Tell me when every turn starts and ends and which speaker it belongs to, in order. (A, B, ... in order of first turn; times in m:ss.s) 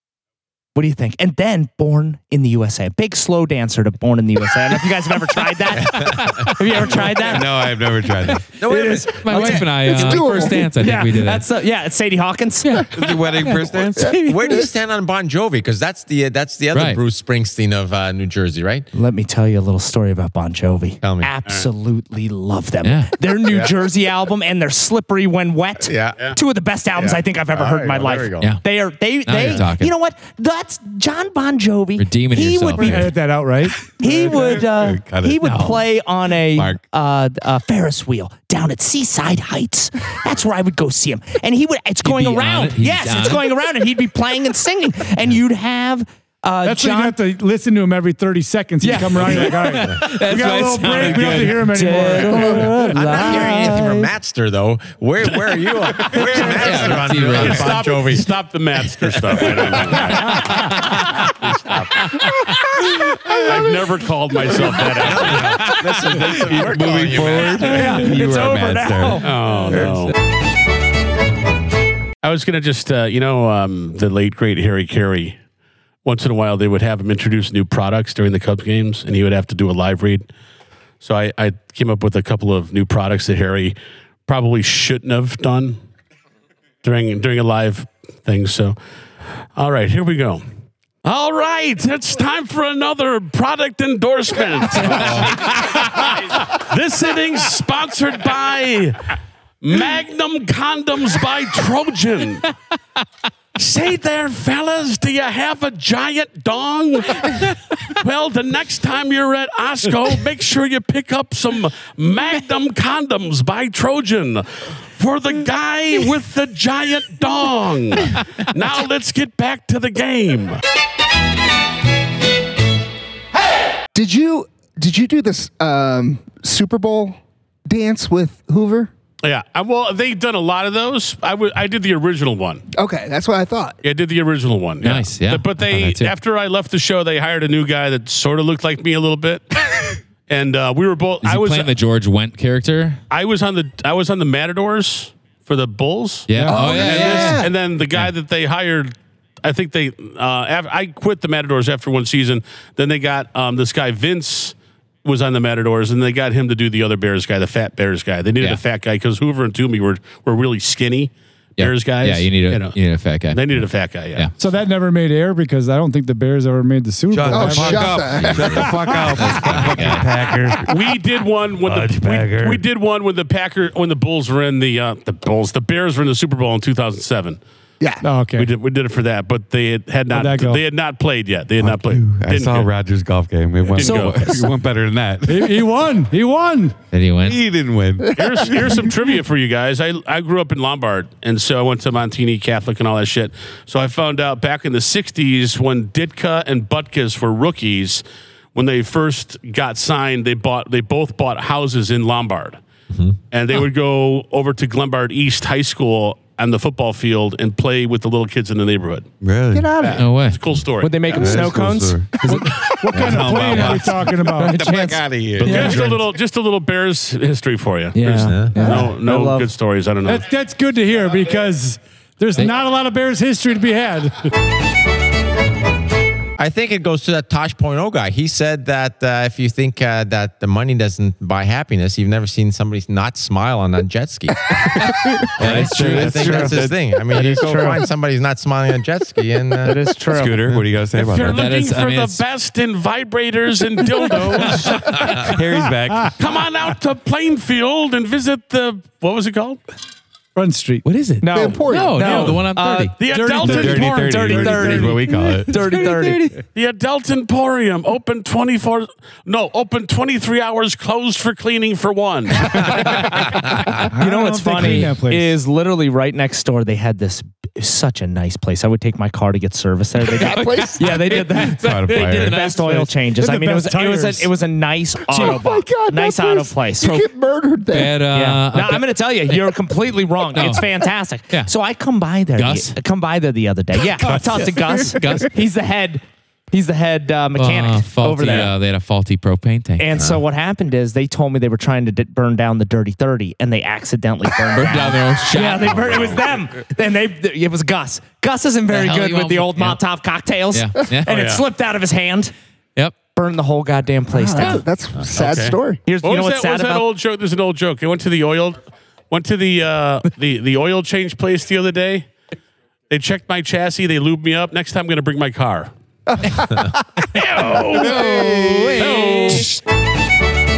0:00.7-0:07.5 A
0:05.9-0:06.6 B
0:07.2-0:08.5 C
0:08.6-0:09.7 D
0:08.6-0:13.5 A
0:09.1-0:11.4 B
0:09.7-0:10.7 E
0:12.6-0:14.6 B
0:12.9-0:14.2 C
0:14.1-0:14.6 A
0:14.2-0:18.9 D
0:16.7-0:17.0 B
0:18.9-0:33.1 A
0:21.0-0:21.3 D
0:22.8-0:23.1 B
0:23.4-0:23.7 D
0:25.8-0:26.2 D
0:27.0-0:28.5 D
0:29.2-0:29.9 B
0:32.0-0:33.1 B
0:32.8-0:34.0 F
0:34.0-0:47.2 A
0:34.1-0:35.5 C
0:35.4-0:35.8 B
0:36.5-0:36.8 C
0:42.0-0:43.4 B
0:46.6-0:53.2 F
0:48.8-0:54.1 A
0:49.3-0:52.5 B
0:52.9-0:58.3 D
0:56.1-0:56.5 A
0:56.5-0:57.9 B
0:57.2-1:02.4 G
1:00.5-1:00.9 B
1:03.3-1:05.7 G
1:04.8-1:05.7 A
1:04.8-1:08.1 D
1:06.3-1:09.3 C
1:07.6-1:09.7 A
1:09.2-1:10.1 G
1:09.7-1:10.1 B
1:12.2-1:15.4 G
1:16.0-1:20.3 G
1:21.0-1:23.7 G
1:24.3-1:25.8 G
1:26.8-1:28.8 G
1:29.6-1:30.4 G
1:31.0-1:39.1 G
1:34.8-1:35.4 C
1:39.6-1:42.5 G
1:43.5-2:00.6 G
2:03.9-2:08.9 E
2:09.2-2:12.6 G
2:12.7-2:13.8 E
2:13.8-2:21.7 G
2:14.8-2:16.1 B
2:21.2-2:23.0 B
2:23.1-2:28.9 G
2:26.3-2:28.1 B
2:26.3-2:26.8 F
2:26.5-2:27.4 E
2:29.4-2:42.8 G
2:41.6-2:44.3 B
2:43.3-2:44.3 G
2:44.4-2:50.6 F
2:47.1-2:50.8 C
2:47.3-2:49.2 E
2:48.2-2:48.6 D
2:49.3-2:50.0 D
2:50.6-2:57.4 G
2:51.6-2:52.6 C
2:57.8-2:58.0 E
2:58.0-2:58.5 F
2:58.4-3:02.7 G
3:00.1-3:00.6 F
3:01.6-3:05.6 C
3:03.7-3:04.2 G
3:03.8-3:04.5 A
3:05.2-3:06.8 F
3:06.9-3:07.4 B
3:07.2-3:08.2 C
3:08.1-3:18.0 G
3:18.5-3:22.6 G
3:22.9-3:23.2 D
3:23.3-3:29.1 G
3:29.2-3:29.7 C
3:29.5-3:30.1 E
3:29.8-3:31.5 G
3:30.0-3:30.4 B
3:30.8-3:32.5 A
3:31.1-3:35.9 C
3:32.2-3:34.6 F
3:34.4-3:35.9 A
3:35.4-3:40.3 G
3:37.9-3:39.5 A
3:38.3-3:38.8 D
3:40.0-3:44.3 F
3:46.4-3:59.8 D
3:55.4-3:56.4 B
3:55.4-3:57.7 C
3:56.0-3:56.5 A
3:57.1-3:57.8 A
3:59.6-4:00.6 A
4:00.1-4:01.6 C
4:00.9-4:05.3 G
4:01.3-4:02.2 B
4:04.9-4:06.1 C
4:05.4-4:06.1 F
4:06.2-4:09.6 G
4:10.3-4:10.8 F
4:10.9-4:13.0 B
4:11.2-4:16.3 A
4:11.3-4:12.0 E
4:11.9-4:12.4 F
4:13.0-4:14.9 G
4:13.0-4:14.0 F
4:13.4-4:15.6 C
4:15.5-4:16.4 B
4:16.5-4:23.2 G
4:23.9-4:25.3 F
4:23.9-4:37.0 A
4:30.1-4:30.9 E
4:30.2-4:32.8 B
4:31.6-4:32.4 C
4:32.5-4:34.3 F
4:35.1-4:38.1 E
4:35.1-4:35.4 F
4:37.7-4:39.5 B
4:38.1-4:48.5 A
4:40.3-4:41.5 B
4:42.3-4:42.8 B
4:44.1-4:45.3 B
4:47.4-4:49.9 B
4:49.8-5:02.3 A
4:54.5-4:56.2 B
4:55.7-4:56.2 G
4:58.7-4:59.8 B
5:00.5-5:01.3 B
5:01.1-5:01.4 G
5:03.1-5:04.6 A
5:04.1-5:05.8 E
5:05.1-5:12.1 G
5:05.8-5:06.8 A
5:12.9-5:15.7 G
5:16.1-5:17.0 E
5:17.1-5:18.2 G
5:17.7-5:19.5 A
5:18.2-5:19.4 B
5:18.8-5:19.6 G